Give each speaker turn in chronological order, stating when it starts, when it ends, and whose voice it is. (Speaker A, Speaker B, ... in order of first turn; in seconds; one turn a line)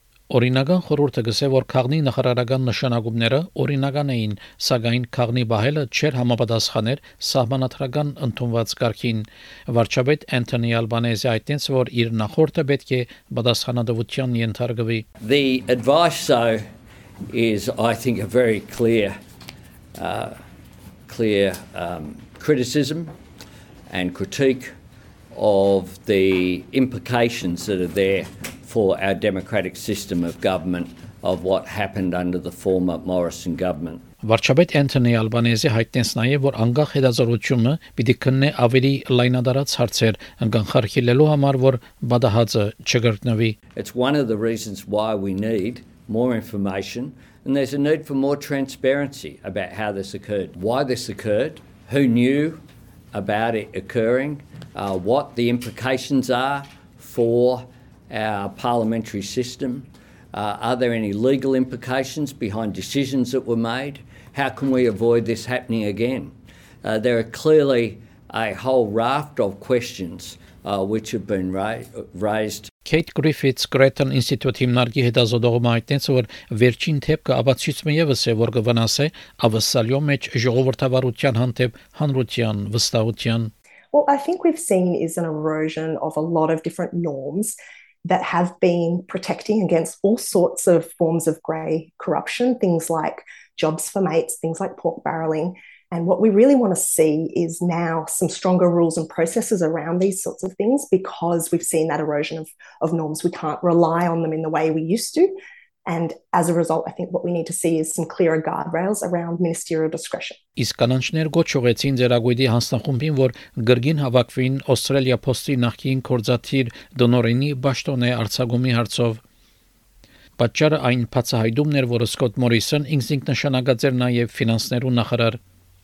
Speaker A: 0.3-15.0
Speaker B: 15.2-16.6
Speaker B: 17.3-19.2
Speaker B: 19.9-20.4
Speaker B: 21.1-23.1
Speaker B: 23.9-24.8
Speaker B: 25.3-34.0
Speaker A: 34.2-43.5
Speaker B: 43.7-72.7
Speaker A: 72.8-83.5
Speaker C: 83.9-105.3
Speaker C: 105.8-110.4
Speaker A: 110.5-119.2
Speaker A: 120.4-125.4